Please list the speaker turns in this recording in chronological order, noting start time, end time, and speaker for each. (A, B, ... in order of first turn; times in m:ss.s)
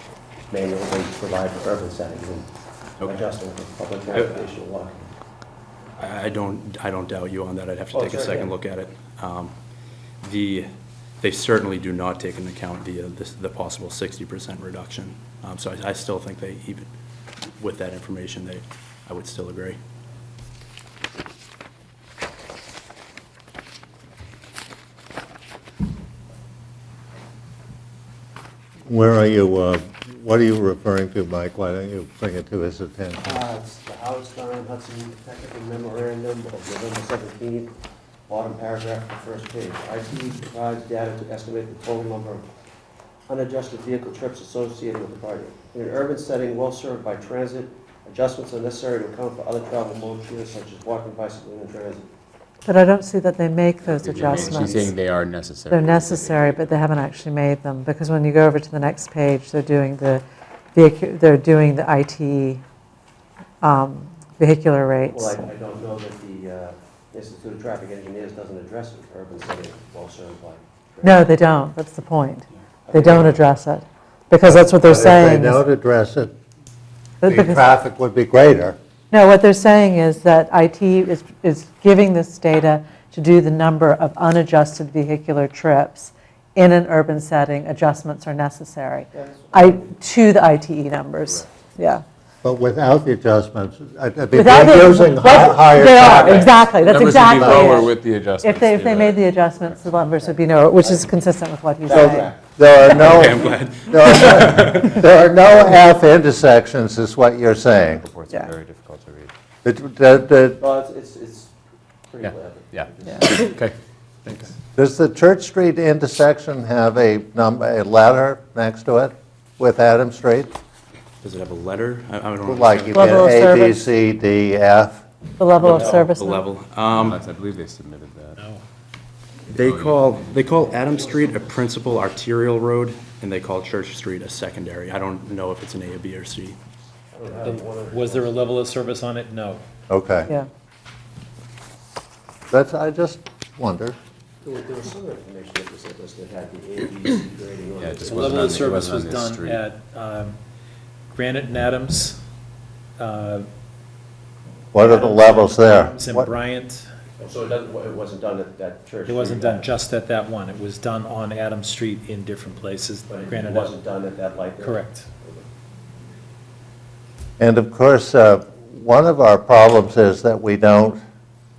0:00.5-0:05.0 A
0:04.1-0:04.5 B
0:06.0-0:09.5 B
0:07.9-0:08.5 A
0:10.2-0:10.7 B
0:11.2-0:16.9 B
0:17.6-0:19.8 B
0:28.9-0:33.3 C
0:33.2-0:37.7 A
0:38.3-0:42.5 A
0:43.3-0:52.1 A
0:52.6-0:54.9 D
0:53.8-0:56.8 E
0:54.2-0:54.9 A
0:55.7-1:00.2 D
1:00.7-1:02.6 D
1:03.6-1:05.4 D
1:05.1-1:11.3 A
1:11.0-1:15.6 D
1:12.9-1:13.4 A
1:14.8-1:16.3 C
1:17.2-1:17.7 D
1:17.2-1:18.8 C
1:19.1-1:32.0 D
1:29.1-1:29.9 A
1:32.4-1:37.8 C
1:34.3-1:42.3 D
1:36.1-1:39.8 E
1:40.2-1:41.2 A
1:41.8-1:42.4 A
1:41.9-1:48.1 C
1:42.9-1:45.0 B
1:47.9-1:49.3 E
1:49.6-1:50.6 C
1:50.6-1:51.5 A
1:52.1-1:53.5 A
1:52.2-1:54.5 E
1:54.8-2:00.6 C
2:01.2-2:03.3 B
2:02.4-2:05.0 C
2:02.9-2:03.8 D
2:05.4-2:06.5 D
2:05.6-2:07.2 B
2:05.8-2:06.0 A
2:06.9-2:08.4 E
2:09.5-2:16.6 B
2:09.6-2:10.6 E
2:17.1-2:18.3 A
2:17.4-2:19.6 F
2:19.9-2:20.3 C
2:22.5-2:24.0 C
2:24.4-2:28.5 A
2:27.8-2:29.6 E
2:28.1-2:30.4 F
2:31.1-2:32.2 F
2:33.0-2:33.5 F
2:34.7-2:36.3 C
2:34.8-2:36.9 F
2:37.2-2:39.7 A
2:39.1-2:43.8 F
2:43.1-2:45.4 A
2:44.6-2:45.1 F
2:47.4-2:51.0 C